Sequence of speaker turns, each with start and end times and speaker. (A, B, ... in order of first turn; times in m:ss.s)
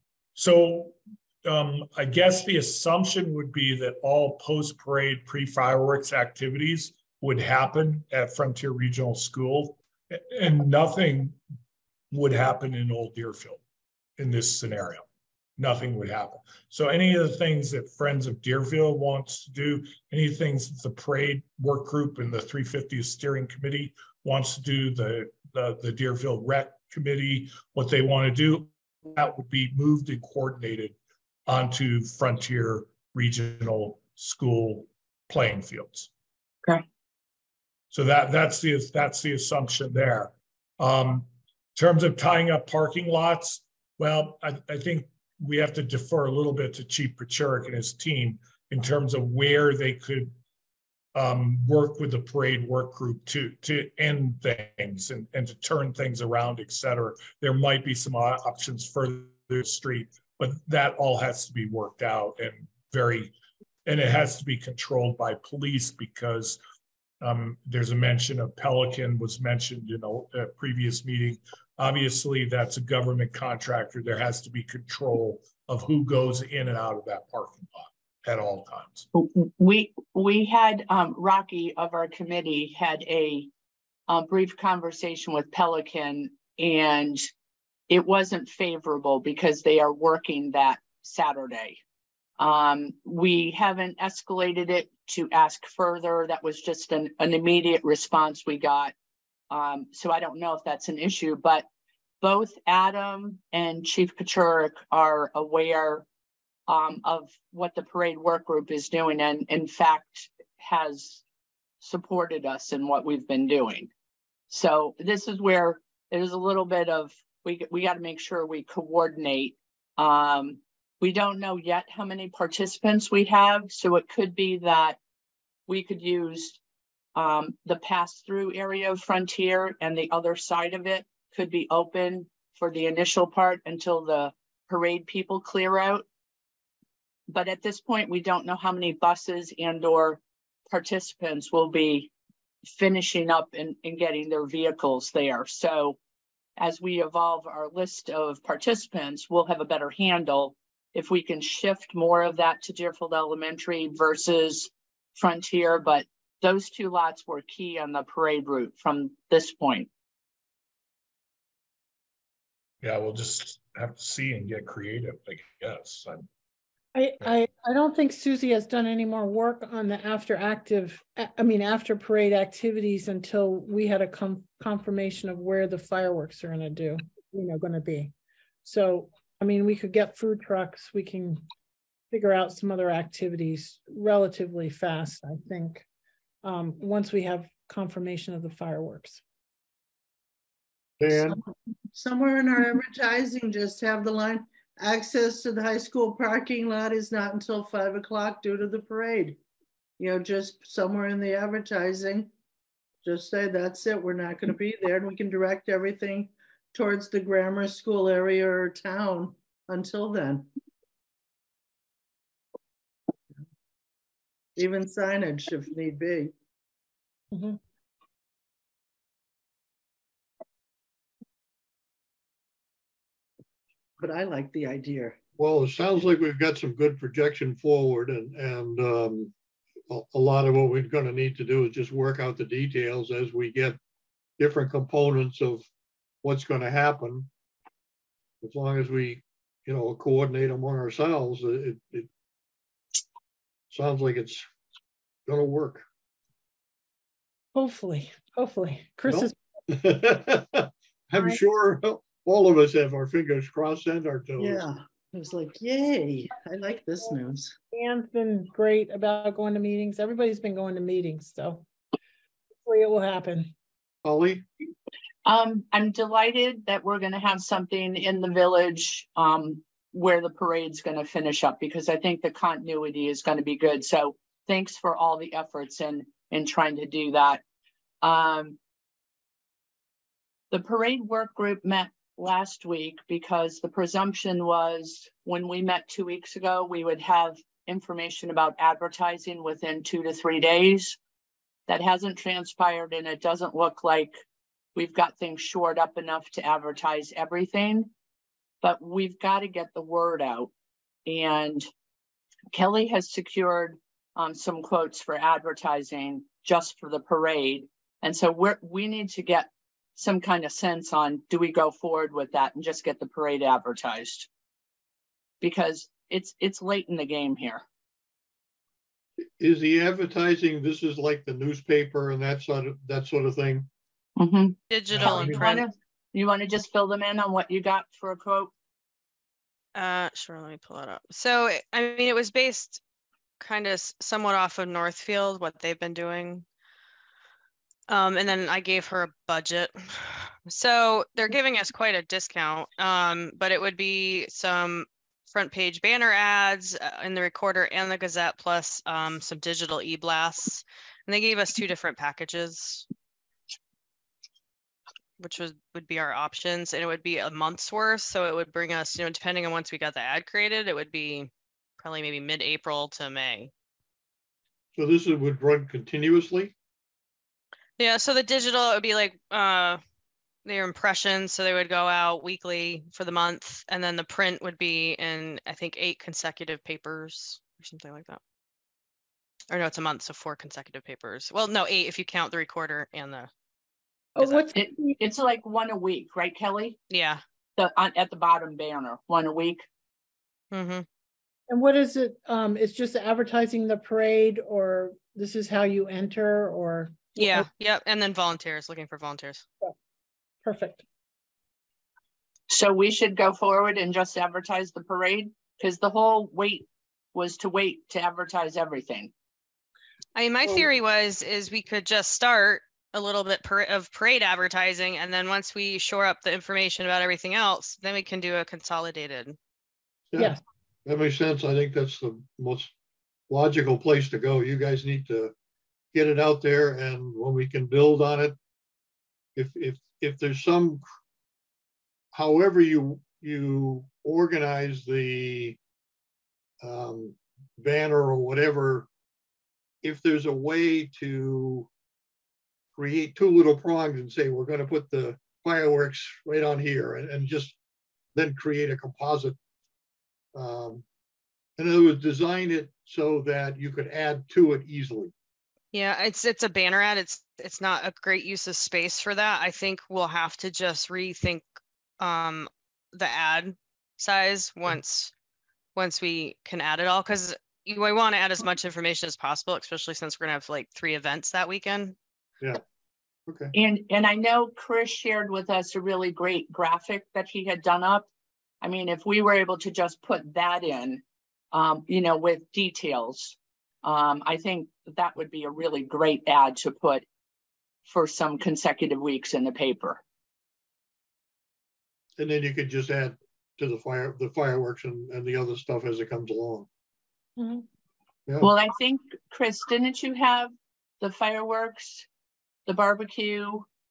0:00.4-0:11.4 A
0:12.1-0:13.6 A
0:14.2-0:15.0 A
0:15.6-0:31.0 A
0:31.5-0:36.1 A
0:37.9-0:50.4 A
0:51.2-1:03.3 A
1:03.9-1:06.6 A
1:07.2-1:19.1 A
1:19.1-1:23.5 B
1:24.1-1:27.3 B
1:27.9-1:31.8 B
1:32.4-1:38.9 B
1:39.5-1:41.7 B
1:42.2-1:46.0 B
1:46.7-1:51.2 B
1:51.8-1:53.9 B
1:54.5-2:05.0 B
2:05.7-2:06.6 B
2:07.2-2:16.0 B
2:17.3-2:22.1 B
2:22.7-2:26.0 B
2:26.6-2:39.9 B
2:42.8-2:46.3 A
2:47.0-2:58.1 C
2:58.6-3:01.4 C
3:02.1-3:05.9 C
3:06.4-3:09.2 C
3:11.0-3:11.4 D
3:11.2-3:19.4 E
3:20.0-3:22.3 E
3:23.0-3:30.5 E
3:34.6-3:36.3 E
3:37.3-3:37.6 C
3:44.0-3:45.2 E
3:45.4-3:49.3 D
3:49.9-3:53.8 D
3:54.4-3:55.7 D
3:56.2-3:57.3 D
3:58.4-4:02.1 D
4:03.7-4:04.5 D
4:05.3-4:05.8 D
4:07.5-4:09.4 C
4:09.1-4:14.6 D
4:14.4-4:17.6 E
4:17.7-4:21.6 C
4:22.6-4:23.5 C
4:24.0-4:24.4 D
4:25.3-4:37.4 B
4:38.0-4:38.6 B
4:40.5-4:51.0 B
4:51.7-4:54.2 B
4:54.8-4:57.9 B
4:58.6-5:00.5 B
5:01.1-5:01.7 B
5:02.5-5:14.3 B
5:15.4-5:17.6 B
5:19.4-5:23.7 D
5:24.2-5:28.5 B
5:24.7-5:25.7 F
5:24.9-5:25.4 D
5:29.8-5:32.8 F
5:33.4-5:36.4 F
5:37.9-5:52.9 F
5:55.2-6:03.5 F
6:04.8-6:06.5 D
6:07.8-6:09.8 F
6:10.4-6:18.2 F
6:19.5-6:23.3 F
6:24.2-6:25.0 C
6:24.5-6:26.8 B
6:26.9-6:27.2 F
6:27.6-6:29.7 B
6:30.5-6:30.8 F
6:31.5-6:37.5 C
6:37.2-6:39.5 F
6:40.4-6:40.8 C
6:42.5-6:49.1 B
6:50.2-6:59.4 F
7:00.2-7:00.4 C
7:00.9-7:02.7 D
7:03.3-7:05.3 D
7:05.9-7:08.4 D
7:09.4-7:10.8 D
7:12.1-7:15.6 D
7:16.6-7:18.9 D
7:19.8-7:21.7 D
7:22.8-7:27.6 D
7:28.2-7:29.4 D
7:30.4-7:30.8 D
7:31.6-7:35.1 D
7:35.7-7:41.5 F
7:42.0-7:45.1 F
7:45.8-7:52.0 F
7:53.3-7:53.5 D
7:53.5-7:58.1 B
7:58.6-8:07.0 B
8:07.9-8:10.0 B
8:12.2-8:16.7 D
8:17.4-8:17.6 C
8:18.4-8:22.1 B
8:22.7-8:23.7 B